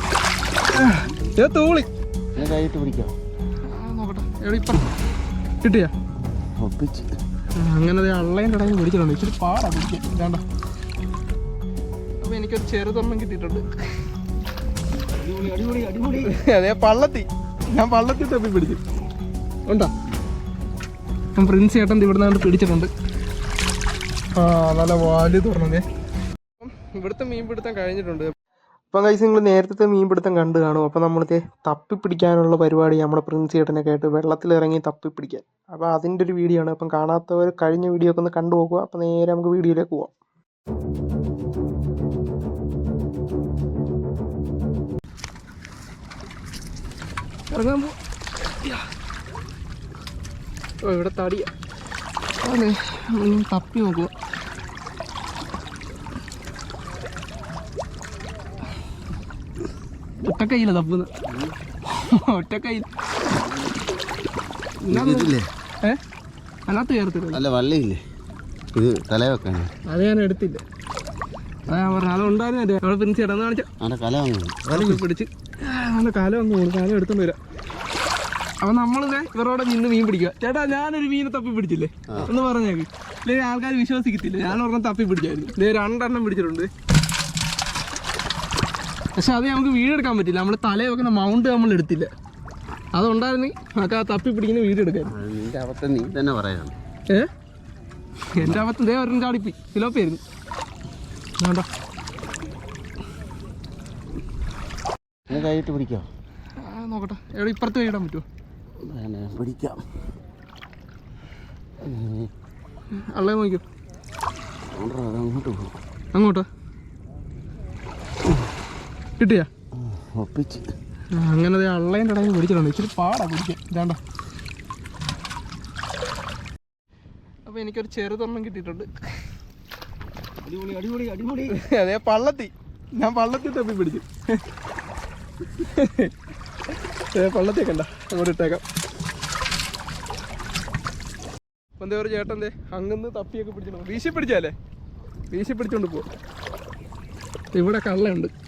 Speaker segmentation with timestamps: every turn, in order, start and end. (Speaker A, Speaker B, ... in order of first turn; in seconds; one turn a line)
Speaker A: 0.7-1.9
Speaker B: 0.7-1.4
Speaker B: 2.3-3.1
Speaker A: 3.6-4.9
Speaker A: 5.6-5.9
Speaker B: 6.2-7.1
Speaker A: 7.5-10.4
Speaker A: 12.2-13.7
Speaker B: 15.1-16.4
Speaker A: 16.2-18.8
Speaker A: 21.3-22.9
Speaker A: 24.4-25.8
Speaker A: 26.6-28.3
Speaker A: 28.9-40.1
Speaker A: 47.5-48.0
Speaker A: 48.5-48.9
Speaker A: 50.8-51.5
Speaker A: 52.4-54.1
Speaker A: 60.2-61.1
Speaker B: 61.2-61.5
Speaker A: 61.9-62.9
Speaker A: 64.8-66.0
Speaker B: 64.9-65.5
Speaker A: 66.7-67.4
Speaker B: 67.3-68.0
Speaker B: 68.7-69.7
Speaker A: 69.8-70.6
Speaker A: 71.7-73.7
Speaker B: 73.8-75.0
Speaker A: 74.7-77.4
Speaker A: 78.6-86.7
Speaker A: 89.2-92.1
Speaker A: 92.9-95.1
Speaker B: 95.1-96.8
Speaker A: 98.3-100.2
Speaker B: 98.4-98.7
Speaker A: 101.4-101.7
Speaker B: 105.3-106.1
Speaker A: 106.6-108.2
Speaker B: 108.8-109.9
Speaker B: 111.8-112.3
Speaker A: 112.9-113.6
Speaker B: 114.7-115.8
Speaker A: 116.1-116.5
Speaker A: 119.2-119.5
Speaker B: 119.7-120.7
Speaker A: 121.1-124.0
Speaker A: 127.5-128.9
Speaker B: 130.4-131.6
Speaker A: 131.5-134.4
Speaker A: 135.6-136.1
Speaker A: 136.7-138.6
Speaker A: 141.8-144.5
Speaker A: 145.3-146.1
Speaker A: 147.5-148.3